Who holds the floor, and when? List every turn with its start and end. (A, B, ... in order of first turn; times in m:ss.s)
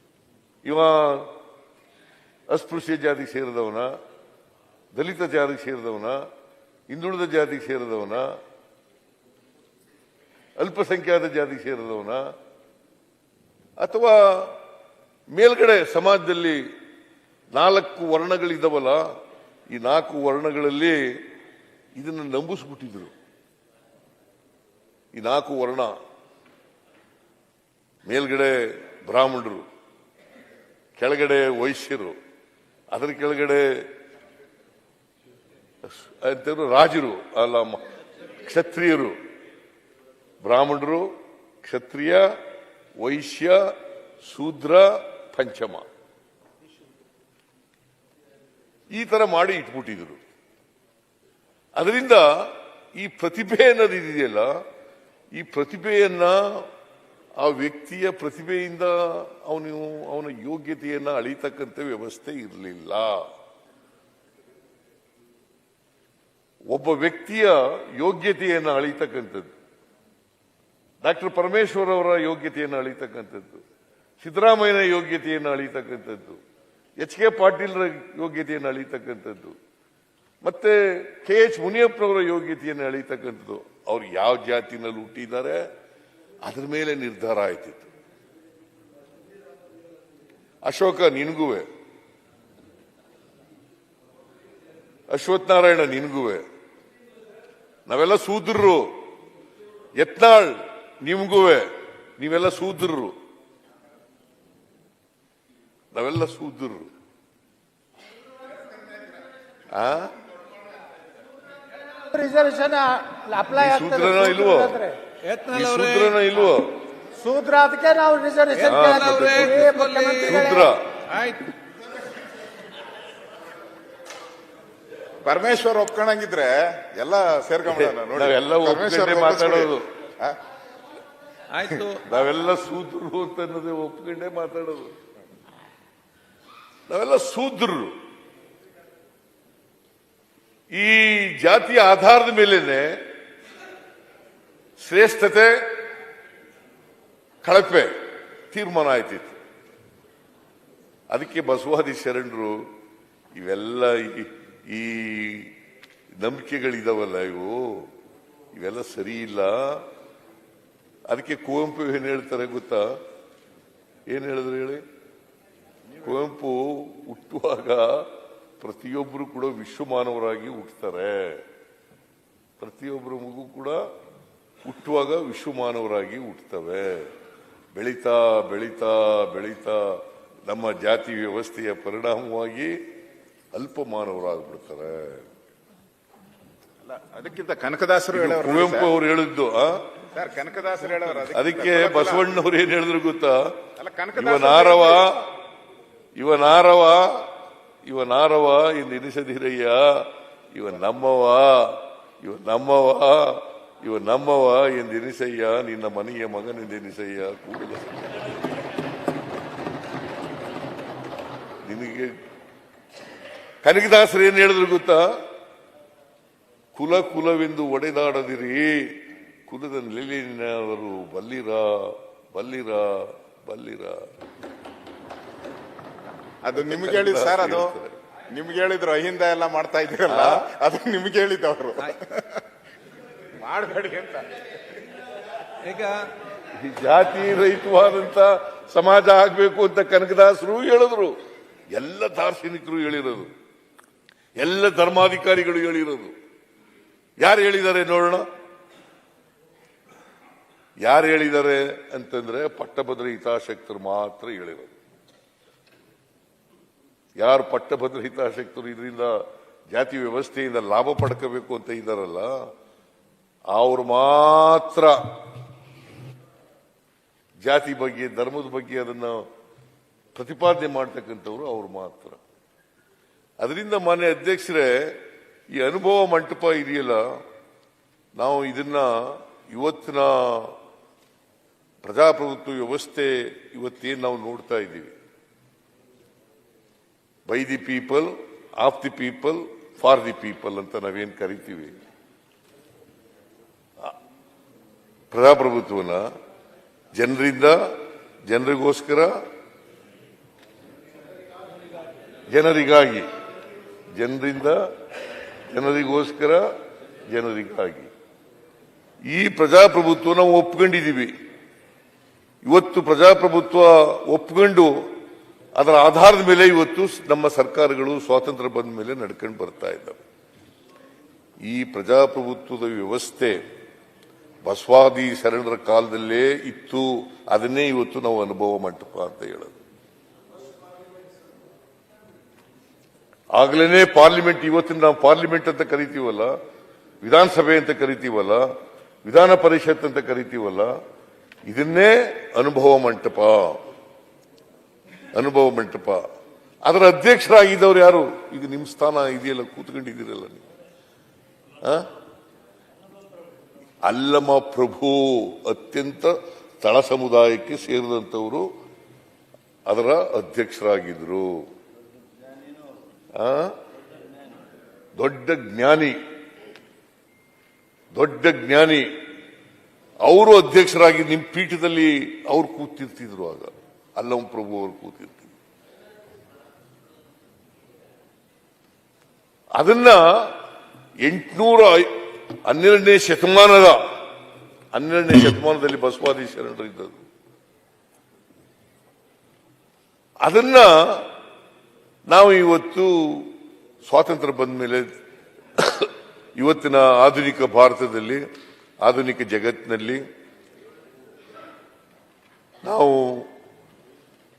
0:00.6-0:01.3 A
0:02.5-0:03.9 A
0:04.9-0:06.2 A
0:06.9-0:08.3 A
0:10.6-0:12.2 A
0:13.8-0:14.6 A
0:15.3-0:16.6 A
0:17.5-0:19.1 A
0:19.7-0:21.2 A
0:22.0-0:23.1 A
0:25.1-0:26.0 A
0:28.0-0:29.7 A
0:31.0-0:32.2 A
0:32.9-0:33.9 A
0:35.9-0:37.8 A
0:38.4-0:39.2 A
0:40.4-0:42.3 A
0:43.0-0:45.9 A
0:48.9-0:50.2 A
0:51.8-0:54.6 A
0:55.3-0:56.7 A
0:57.4-1:03.3 A
1:06.7-1:09.5 A
1:11.0-1:13.6 A
1:14.2-1:16.4 A
1:17.0-1:19.6 A
1:20.4-1:25.6 A
1:26.4-1:27.9 A
1:30.6-1:31.7 A
1:35.1-1:36.4 A
1:37.9-1:38.9 A
1:40.0-1:43.2 A
1:45.9-1:46.9 A
1:49.7-1:50.1 A
1:52.1-1:55.0 B
1:53.5-1:54.8 A
1:55.2-1:56.2 C
1:55.5-1:56.8 A
1:57.2-2:00.7 B
1:58.6-2:00.4 C
1:58.6-2:01.0 A
2:01.1-2:01.5 C
2:05.2-2:10.4 D
2:07.7-2:09.9 A
2:11.5-2:12.0 C
2:12.0-2:14.9 A
2:16.9-2:18.0 A
2:20.7-2:23.0 A
2:24.8-2:25.6 A
2:27.4-2:27.9 A
2:28.5-2:29.4 A
2:31.1-2:32.7 A
2:33.4-2:35.5 A
2:36.2-2:37.9 A
2:38.6-2:39.8 A
2:41.1-2:43.0 A
2:44.1-2:44.8 A
2:46.0-2:48.1 A
2:48.6-2:51.4 A
2:52.6-2:53.8 A
2:54.6-2:57.1 A
2:57.8-3:02.8 A
3:03.5-3:05.3 A
3:06.9-3:08.9 D
3:08.1-3:09.9 A
3:10.1-3:12.3 D
3:11.3-3:13.6 A
3:13.8-3:15.1 D
3:14.2-3:15.3 A
3:16.2-3:17.3 A
3:17.8-3:28.2 A
3:31.6-3:32.2 A
3:33.6-3:35.2 A
3:36.8-3:44.1 A
3:46.4-3:47.8 D
3:46.6-3:48.0 A
3:48.3-3:52.4 D
3:50.1-3:50.5 A
3:53.4-3:54.3 D
3:55.6-3:56.1 C
3:56.5-4:01.2 A
4:01.7-4:03.3 A
4:04.4-4:06.2 A
4:07.2-4:08.3 A
4:10.8-4:14.7 A
4:17.2-4:22.5 A
4:23.5-4:25.1 A
4:27.4-4:29.2 A
4:30.2-4:32.2 A
4:33.4-4:37.2 A
4:38.2-4:40.6 A
4:41.8-4:44.9 A
4:47.3-4:51.8 A
4:55.1-4:56.1 A
4:56.9-4:57.7 A
4:58.3-4:59.2 A
5:02.3-5:03.1 A
5:04.0-5:04.7 A
5:05.5-5:06.5 A
5:07.1-5:07.9 A
5:09.0-5:11.1 A
5:12.4-5:14.9 A
5:15.6-5:20.0 A
5:21.4-5:23.4 A
5:24.4-5:29.6 A
5:33.3-5:36.4 A
5:37.0-5:38.5 A
5:39.0-5:40.8 A
5:41.5-5:43.6 A
5:45.1-5:46.0 A
5:46.6-5:50.4 A
5:51.6-5:51.9 A
5:53.8-5:58.5 A
5:59.7-6:01.5 A
6:03.1-6:03.6 A
6:05.0-6:06.0 A
6:07.9-6:08.9 A
6:10.0-6:15.3 A
6:19.6-6:20.4 A
6:21.0-6:23.9 A
6:24.7-6:27.0 A
6:30.2-6:31.1 A
6:32.1-6:34.9 A
6:35.6-6:38.2 A
6:38.8-6:40.0 A
6:42.6-6:43.3 A